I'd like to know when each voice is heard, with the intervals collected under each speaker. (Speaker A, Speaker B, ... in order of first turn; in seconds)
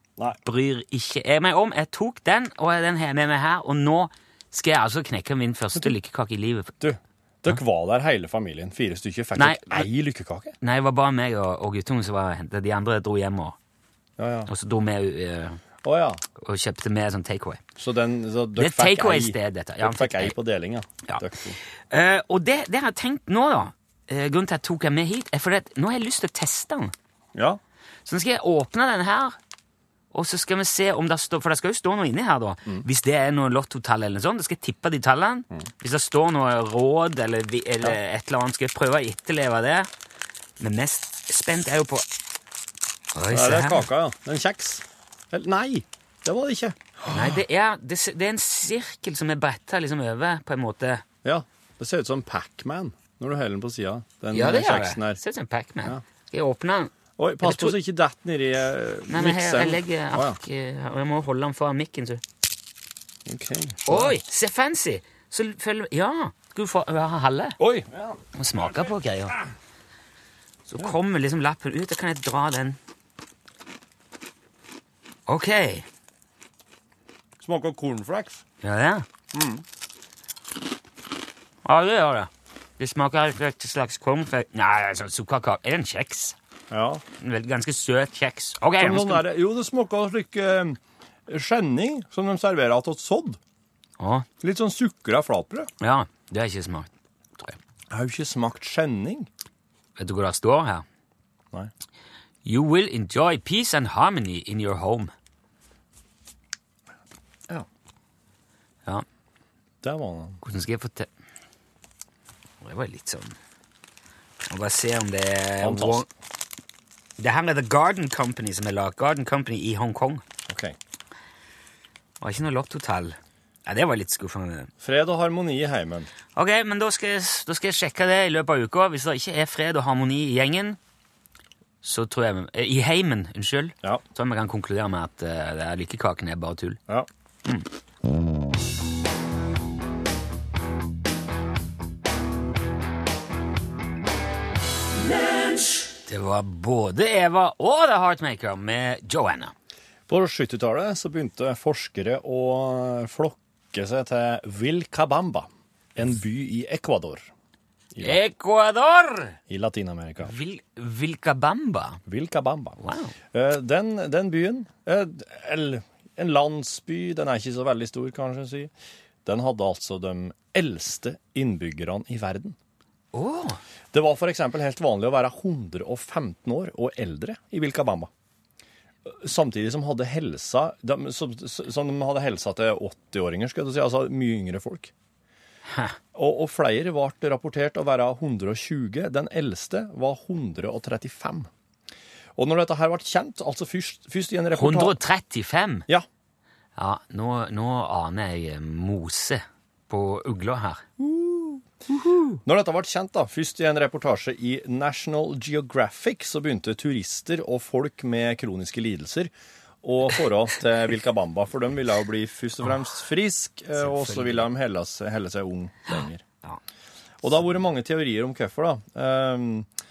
Speaker A: 0.4-6.8, 9.4-9.9, 10.6-13.6, 14.5-15.6, 16.4-17.6, 18.6-20.4, 21.9-26.9, 28.1-29.4, 30.1-39.9, 40.6-42.1, 43.1-43.9, 47.1-51.0, 54.3-57.8, 59.1-62.2, 63.9-67.6, 68.3-69.4, 70.7-72.8, 75.3-75.9, 78.6-79.0, 81.7-86.4, 87.2-89.2, 94.0-94.3, 95.8-97.6, 100.0-100.8, 102.5-105.1, 110.4-111.1, 112.6-113.4, 114.4-116.1, 117.2-120.2, 122.2-124.7, 126.4-130.8, 131.8-136.8, 146.1-149.5, 158.0-159.4, 160.2-162.0, 162.8-163.2, 173.1-173.6, 185.7-186.0, 194.5-195.9, 196.8-200.8, 202.1-202.4, 213.8-214.5, 215.9-216.6
Speaker B: 6.8-10.6, 14.2-14.5, 15.8-16.2, 17.8-21.6, 27.4-27.6, 43.3-47.4, 51.2-55.2, 57.2-60.4, 63.3-64.2, 67.6-68.2, 77.4-78.4, 79.3-79.6, 86.7-87.0, 88.8-93.4, 94.4-95.7, 97.9-99.3, 109.8-110.4, 115.6-116.0, 120.5-120.8, 124.8-126.1, 150.1-157.3, 157.9-158.2, 159.5-160.3, 162.1-162.8, 163.3-168.7, 169.2-172.6, 173.9-178.1, 179.1-184.9, 186.1-191.5, 192.4-195.0, 201.0-201.7, 202.4-216.2, 217.2-219.7